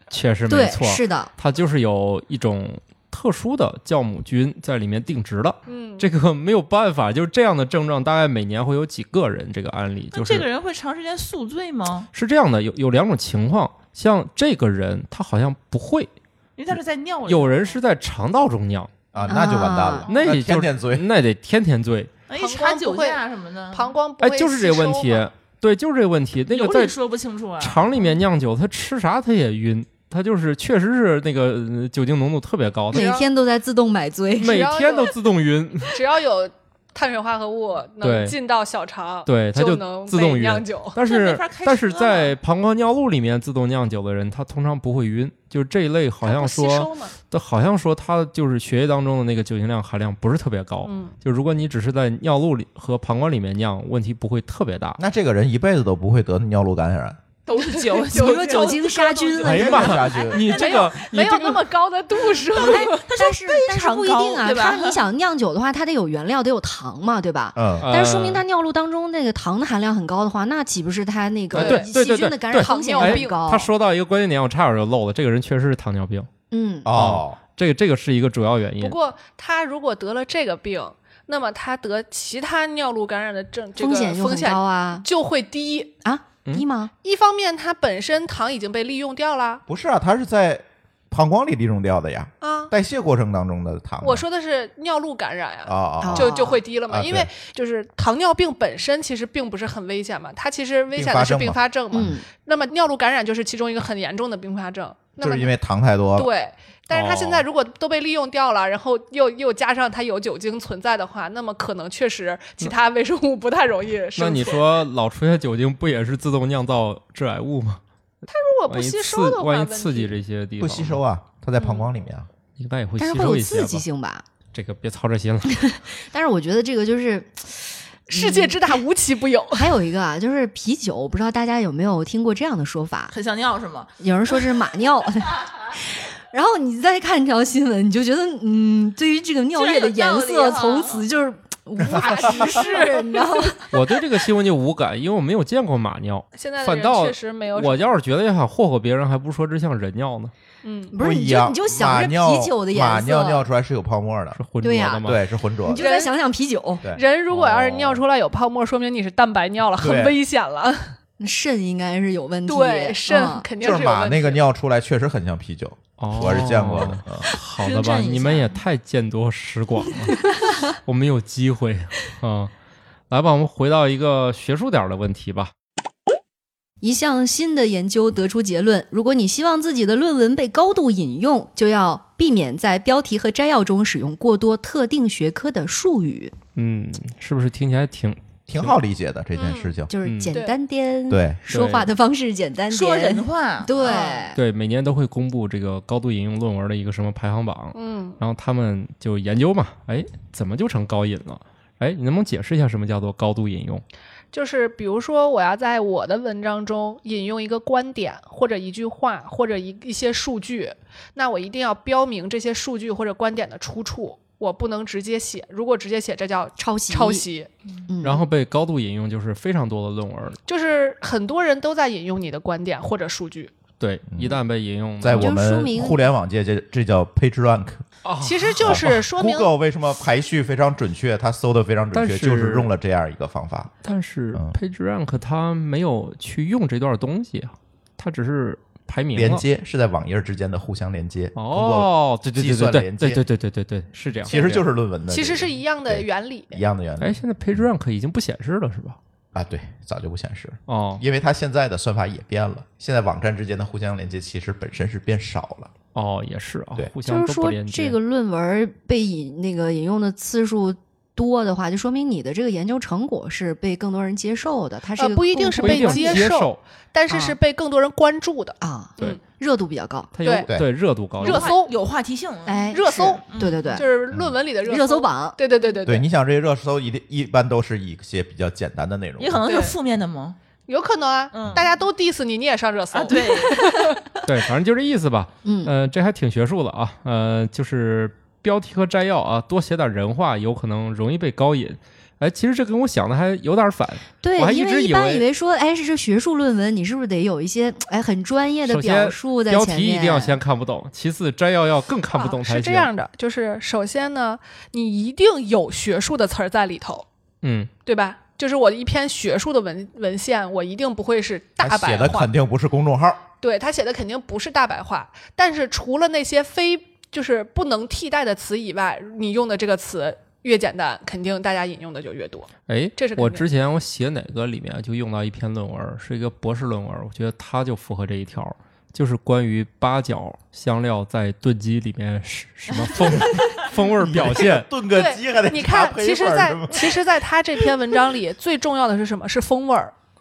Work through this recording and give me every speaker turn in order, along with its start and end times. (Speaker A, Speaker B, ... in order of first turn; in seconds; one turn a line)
Speaker A: 0.1-10.5
Speaker B: 0.5-1.3
Speaker C: 5.7-6.1
Speaker D: 10.1-12.1
Speaker A: 12.1-16.1
Speaker D: 16.6-17.8
Speaker A: 16.7-18.9
Speaker E: 19.1-21.0
Speaker B: 19.2-20.1
Speaker A: 20.1-22.1
Speaker D: 22.3-24.0
Speaker C: 22.3-23.2
Speaker C: 23.7-25.3
Speaker A: 24.2-26.9
Speaker D: 26.5-28.1
Speaker A: 27.6-33.2
Speaker C: 32.9-33.3
Speaker B: 32.9-34.7
Speaker A: 34.4-36.0
Speaker C: 34.4-35.2
Speaker C: 35.9-41.0
Speaker A: 38.0-38.4
Speaker A: 39.2-55.0
Speaker D: 41.0-42.4
Speaker C: 46.2-47.1
Speaker C: 50.8-51.1
Speaker E: 55.0-57.2
Speaker D: 57.5-60.3
Speaker C: 57.5-63.1
Speaker B: 58.1-60.1
Speaker E: 59.4-60.4
Speaker A: 59.5-61.7
Speaker D: 62.5-65.0
Speaker B: 62.6-73.7
Speaker E: 67.5-67.9
Speaker A: 67.8-68.4
Speaker A: 71.5-76.3
Speaker C: 71.5-71.9
Speaker C: 72.5-73.4
Speaker B: 76.5-76.9
Speaker E: 76.8-77.4
Speaker A: 76.9-79.0
Speaker C: 78.8-85.9
Speaker B: 83.8-85.0
Speaker B: 86.0-86.9
Speaker C: 87.0-89.6
Speaker E: 89.7-94.2
Speaker C: 92.4-92.7
Speaker C: 94.0-105.5
Speaker E: 95.7-97.3
Speaker B: 96.0-96.6
Speaker E: 100.9-101.6
Speaker B: 101.9-102.2
Speaker E: 105.2-106.3
Speaker C: 106.1-114.7
Speaker A: 106.9-107.5
Speaker A: 114.2-117.8
Speaker C: 118.3-120.2
Speaker A: 118.7-121.0
Speaker E: 120.6-122.3
Speaker C: 121.6-121.9
Speaker A: 122.6-123.8
Speaker B: 123.0-124.2
Speaker A: 124.5-125.7
Speaker B: 125.5-128.8
Speaker C: 128.1-129.7
Speaker B: 129.5-133.1
Speaker D: 133.1-133.9
Speaker B: 134.0-143.7
Speaker D: 139.5-141.0
Speaker C: 141.8-143.6
Speaker A: 143.7-150.3
Speaker C: 146.3-148.0
Speaker C: 150.6-150.9
Speaker B: 150.9-153.5
Speaker E: 151.0-154.4
Speaker A: 154.3-155.2
Speaker B: 154.6-155.1
Speaker E: 155.0-155.9
Speaker B: 155.6-156.8
Speaker C: 155.7-156.1
Speaker C: 156.9-160.9
Speaker A: 157.3-158.0
Speaker E: 159.8-160.2
Speaker B: 161.2-163.5
Speaker C: 162.5-164.4
Speaker E: 163.6-167.3
Speaker A: 166.0-172.5
Speaker D: 167.6-168.6
Speaker A: 173.1-175.5
Speaker B: 176.8-186.3
Speaker A: 186.5-188.8
Speaker E: 188.5-189.9
Speaker C: 189.3-189.8
Speaker B: 189.9-194.4
Speaker A: 190.0-190.3
Speaker C: 190.3-190.6
Speaker E: 191.1-191.4
Speaker A: 191.5-191.9
Speaker D: 192.7-194.0
Speaker C: 193.8-194.3
Speaker A: 194.3-203.8
Speaker C: 197.7-198.2
Speaker C: 204.3-217.5
Speaker B: 216.6-217.2
Speaker B: 217.9-218.2
Speaker A: 218.0-220.4
Speaker C: 220.5-223.5
Speaker A: 223.8-225.4
Speaker E: 224.1-224.4
Speaker E: 225.0-227.8
Speaker B: 225.1-226.1
Speaker A: 228.0-229.0
Speaker C: 228.2-229.5
Speaker E: 228.6-233.7
Speaker A: 231.9-232.7
Speaker A: 233.8-239.4
Speaker E: 239.2-243.2
Speaker A: 241.3-244.6
Speaker E: 244.2-247.2
Speaker C: 244.3-246.6
Speaker A: 247.0-249.0
Speaker E: 249.3-255.7
Speaker A: 250.7-251.0
Speaker A: 255.9-258.0
Speaker B: 257.0-266.2
Speaker C: 265.0-269.2
Speaker A: 265.6-266.6
Speaker B: 267.1-267.4
Speaker B: 268.6-270.1
Speaker A: 270.1-271.5
Speaker C: 270.2-270.5
Speaker C: 271.2-271.7
Speaker D: 271.2-273.7
Speaker B: 272.4-273.9
Speaker C: 272.7-276.1
Speaker E: 274.1-274.4
Speaker B: 274.6-275.4
Speaker E: 275.8-279.4
Speaker D: 279.2-280.4
Speaker C: 279.4-279.8
Speaker C: 280.7-284.0
Speaker D: 281.3-281.7
Speaker D: 282.9-283.7
Speaker A: 284.2-295.2
Speaker B: 285.4-285.7
Speaker B: 294.2-300.4
Speaker A: 298.7-302.9
Speaker C: 302.1-307.1
Speaker A: 307.4-307.7
Speaker C: 307.8-312.3
Speaker E: 311.6-313.2
Speaker C: 313.4-323.4
Speaker A: 322.7-334.7
Speaker E: 333.9-337.0
Speaker C: 334.9-339.9